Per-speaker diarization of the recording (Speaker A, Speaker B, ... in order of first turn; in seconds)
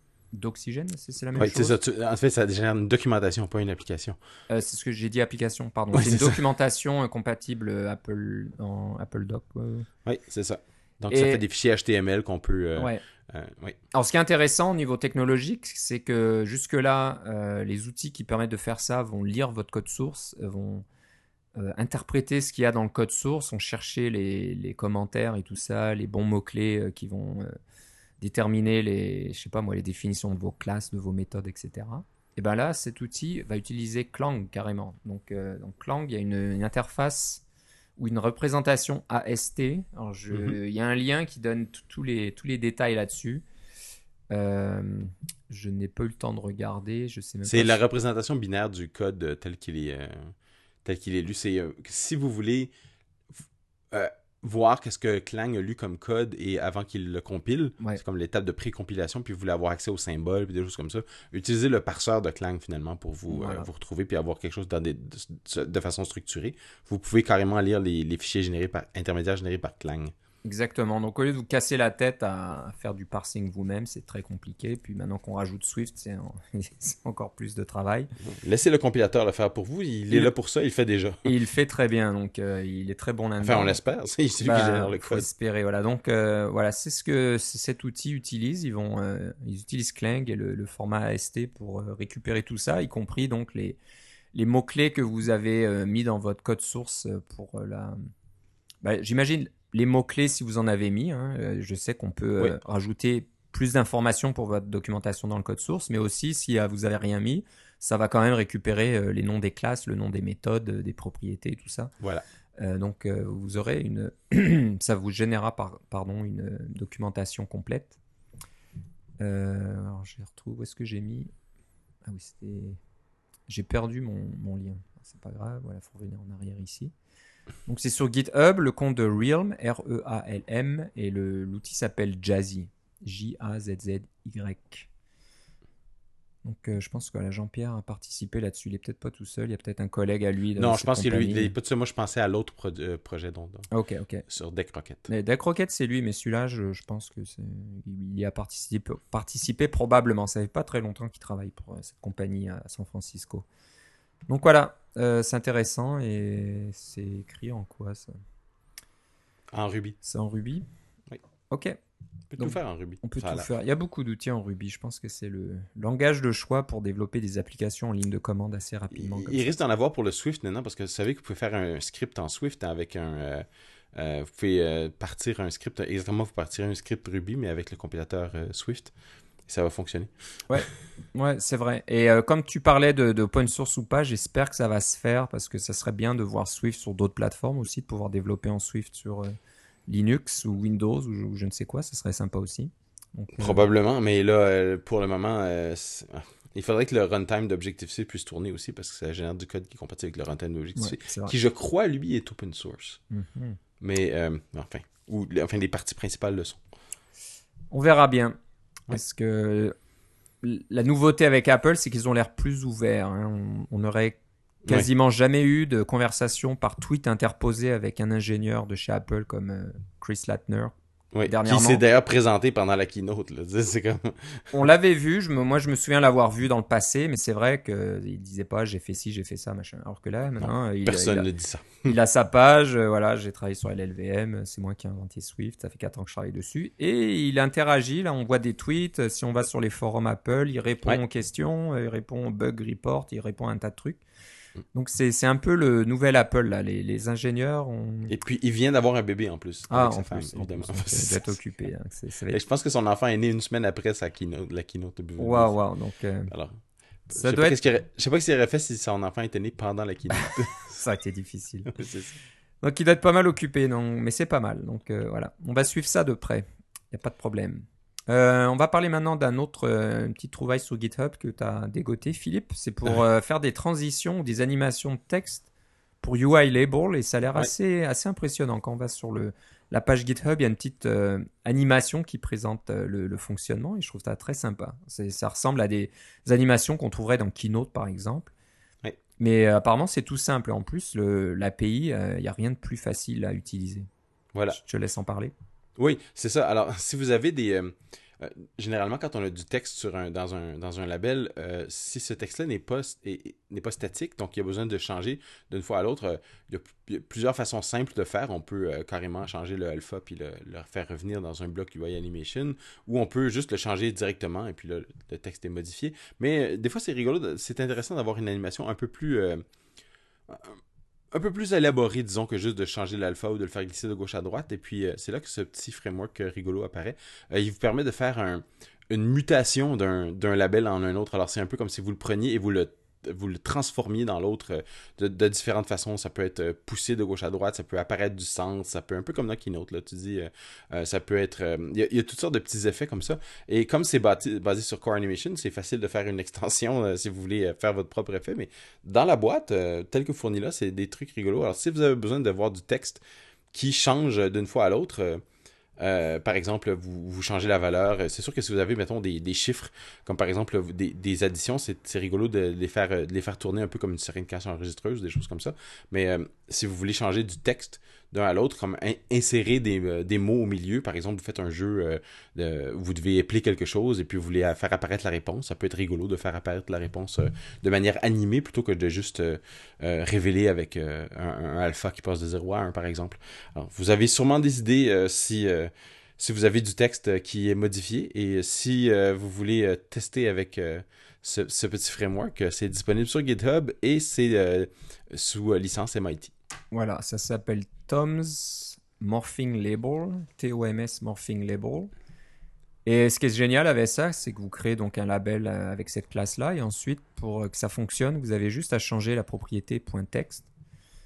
Speaker A: 0.3-1.8, 4.5-9.9, 11.1-11.4, 12.8-13.0, 13.9-20.9, 21.6-27.6, 28.2-37.4, 38.0-43.5, 44.3-47.8, 63.3-63.7, 70.5-78.1, 81.2-83.8, 84.4-93.8, 94.3-98.0, 98.8-111.9, 112.6-118.0, 119.2-121.3, 122.0-122.8, 123.5-126.9, 127.7-134.9, 136.4-141.5, 143.7-144.2, 145.1-153.4, 154.3-158.1, 160.0-160.7, 161.5-161.8, 162.4-169.6, 180.5-189.3, 189.9-193.6, 200.8-201.3, 203.1-203.6, 207.7-208.4, 208.9-209.8, 210.4-220.7, 221.2-221.8, 224.5-231.3, 231.8-244.0, 244.7-248.2, 249.7-252.4, 255.2-256.3, 257.1-257.6, 260.2-261.7, 262.6-275.5, 276.0-288.3, 289.2-293.9, 294.5-295.3, 396.7-401.9, 402.9-410.5
Speaker B: 1.4-4.2, 5.9-6.4, 10.1-13.8, 47.5-50.3, 50.9-52.7, 53.9-70.1, 78.3-81.3, 83.4-85.3, 140.6-143.7, 144.3-145.1, 159.5-160.0, 162.3-163.5, 168.9-178.9, 179.5-180.1, 193.4-203.0, 203.8-206.6, 221.1-224.4, 230.4-231.9, 248.1-251.4, 252.3-255.6, 256.3-256.6, 257.2-260.8, 261.7-262.2, 295.8-319.4, 320.3-320.6, 321.1-353.0, 353.5-355.2, 355.8-396.3